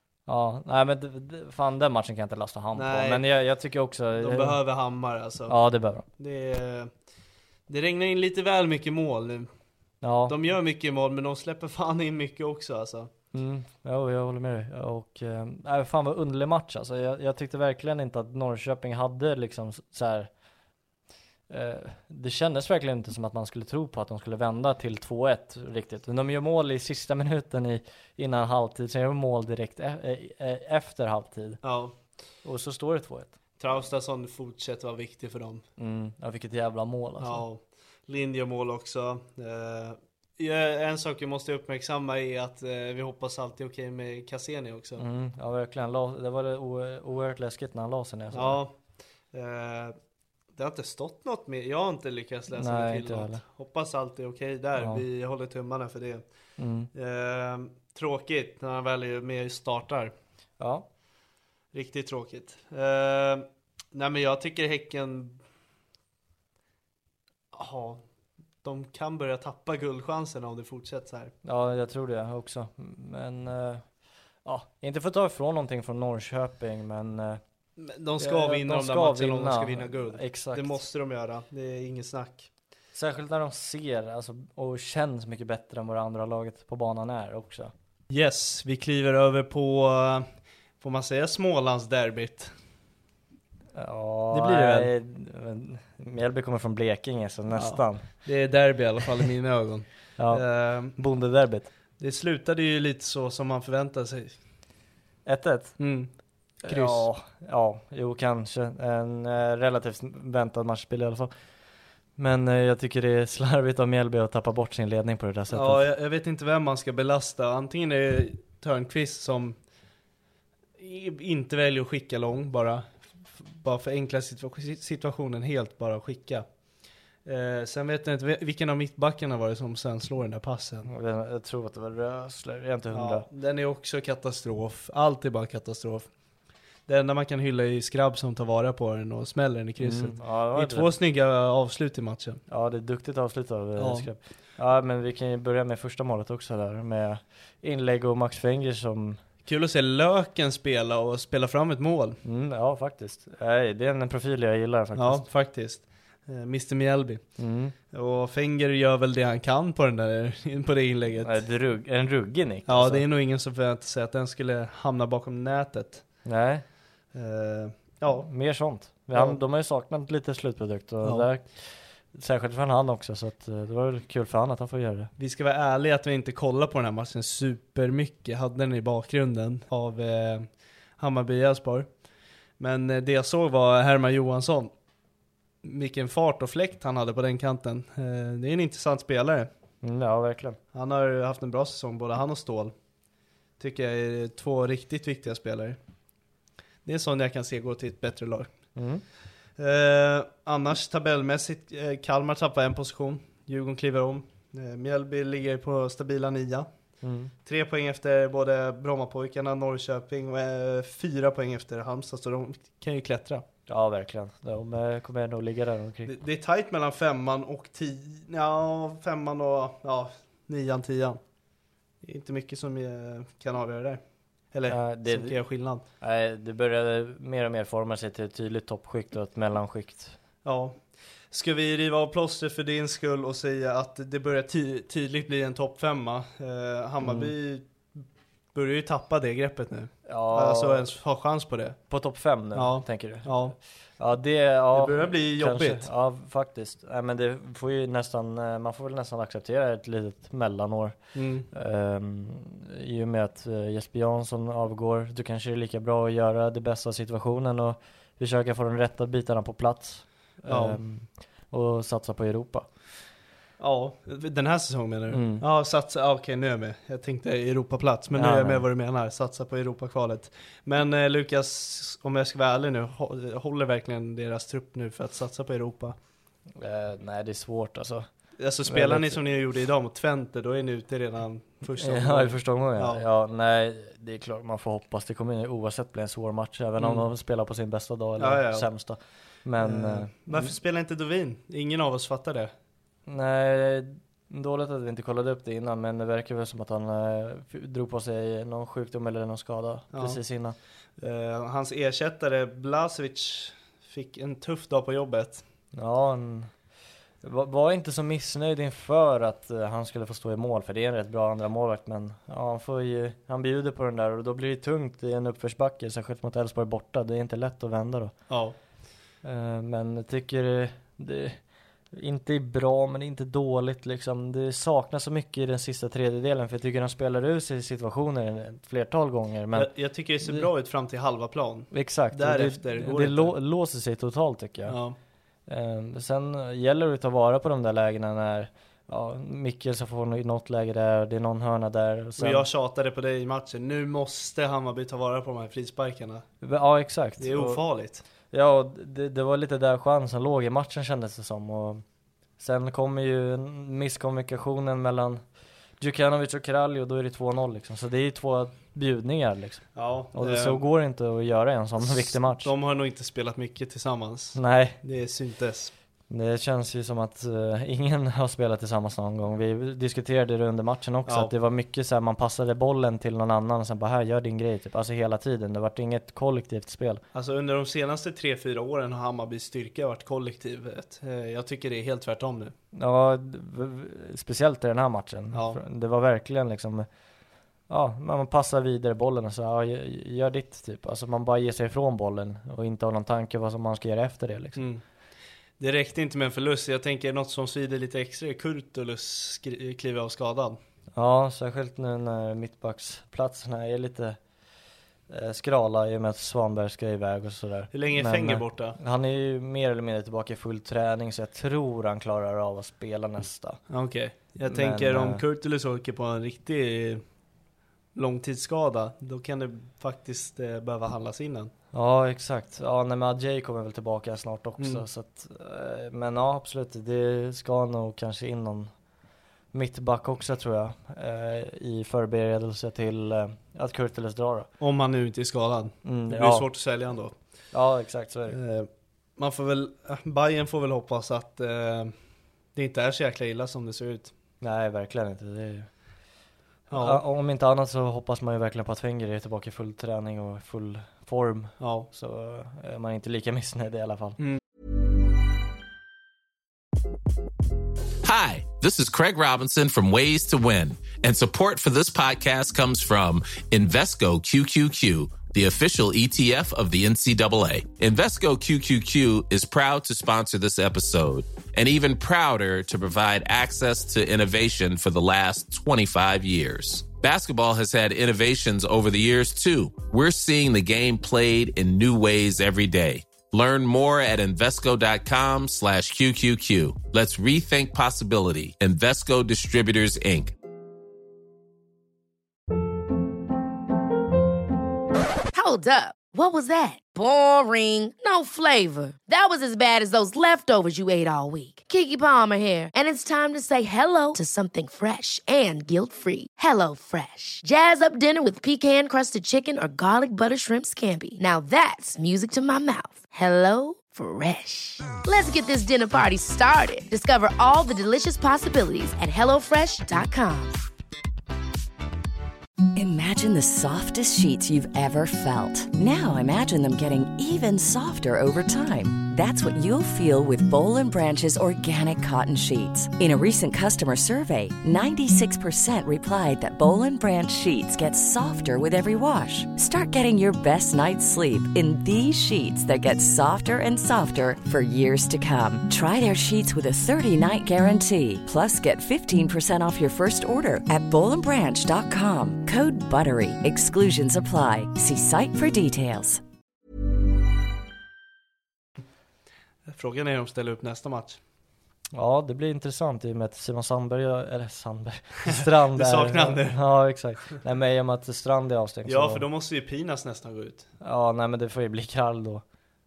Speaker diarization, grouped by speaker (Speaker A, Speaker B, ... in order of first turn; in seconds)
Speaker A: 0.3-4.6, 5.5-6.0, 10.0-10.3, 13.3-20.3, 21.5-31.6, 32.4-33.3, 35.8-37.4, 45.0-48.6, 52.5-53.4, 54.8-55.0, 56.6-56.9, 60.6-60.9, 71.4-73.8, 74.4-77.4, 78.2-80.8, 82.9-87.7, 93.7-98.1, 100.2-101.7, 105.2-105.8, 106.6-111.3, 112.2-115.8, 130.8-133.3, 139.8-140.9, 142.5-149.2, 152.2-155.2, 157.4-157.7, 161.2-163.0, 166.2-166.6, 168.2-171.6, 172.1-175.1, 189.8-190.6, 198.8-199.0, 207.0-207.3, 213.7-216.2, 224.7-225.3, 226.0-230.2, 237.0-237.3, 240.1-240.9, 241.9-251.0, 251.5-262.6, 265.1-265.4, 268.1-268.6, 276.6-278.1, 278.6-279.2, 281.8-290.5, 293.1-300.6, 305.7-306.5, 307.2-318.1, 319.2-321.4, 321.9-329.7, 330.2-330.5, 331.7-334.8, 335.5-342.5, 346.4-347.6, 348.3-351.8, 352.4-355.2, 355.8-362.5, 364.3-364.8, 366.1-377.0, 382.7-386.9, 387.7-394.6, 400.9-404.2, 405.1-413.6, 414.5-415.2, 421.7-428.7, 429.5-434.5, 435.8-436.5, 437.5-438.4, 444.4-445.7, 446.7-454.2, 561.9-569.2, 570.8-572.4
Speaker B: 2.7-3.2, 4.2-5.6, 6.2-6.9, 7.7-9.5, 10.3-13.1, 31.6-31.9, 33.6-35.6, 37.2-45.0, 48.3-48.7, 49.3-50.0, 50.5-56.2, 56.9-60.1, 61.7-65.4, 67.5-68.0, 68.6-71.3, 77.8-82.5, 88.1-90.3, 90.8-92.5, 94.3-94.9, 97.5-100.9, 102.0-104.3, 105.8-106.1, 106.6-107.1, 115.5-119.6, 120.8-126.5, 127.2-130.9, 132.9-136.1, 136.9-142.4, 143.8-144.1, 149.4-152.2, 154.9-157.2, 157.9-161.4, 162.7-166.0, 167.1-168.3, 169.1-169.4, 175.2-181.9, 182.6-184.7, 185.6-189.5, 190.7-192.7, 193.6-195.8, 196.8-198.5, 199.6-206.7, 207.4-213.4, 216.1-221.2, 222.0-224.0, 224.5-225.8, 230.4-238.0, 238.5-241.8, 242.5-243.6, 244.7-245.8, 251.1-251.5, 260.5-260.8, 263.6-275.9, 278.4-283.0, 286.8-287.0, 288.2-288.7, 289.6-292.5, 299.9-300.2, 301.0-305.4, 318.3-318.6, 329.5-333.3, 334.6-335.0, 342.2-346.2, 347.2-348.0, 359.7-360.6, 361.8-365.7, 371.1-371.3, 377.1-382.5, 385.3-385.6, 394.6-394.8, 395.6-400.6, 407.7-408.8, 413.7-417.0, 417.9-421.5, 434.6-437.1, 438.3-441.9, 442.5-444.1, 446.7-447.0, 451.6-451.9, 559.7-561.2, 565.2-566.6, 568.9-570.7
Speaker C: 458.0-490.3
Speaker D: 495.3-520.6
Speaker E: 522.7-556.2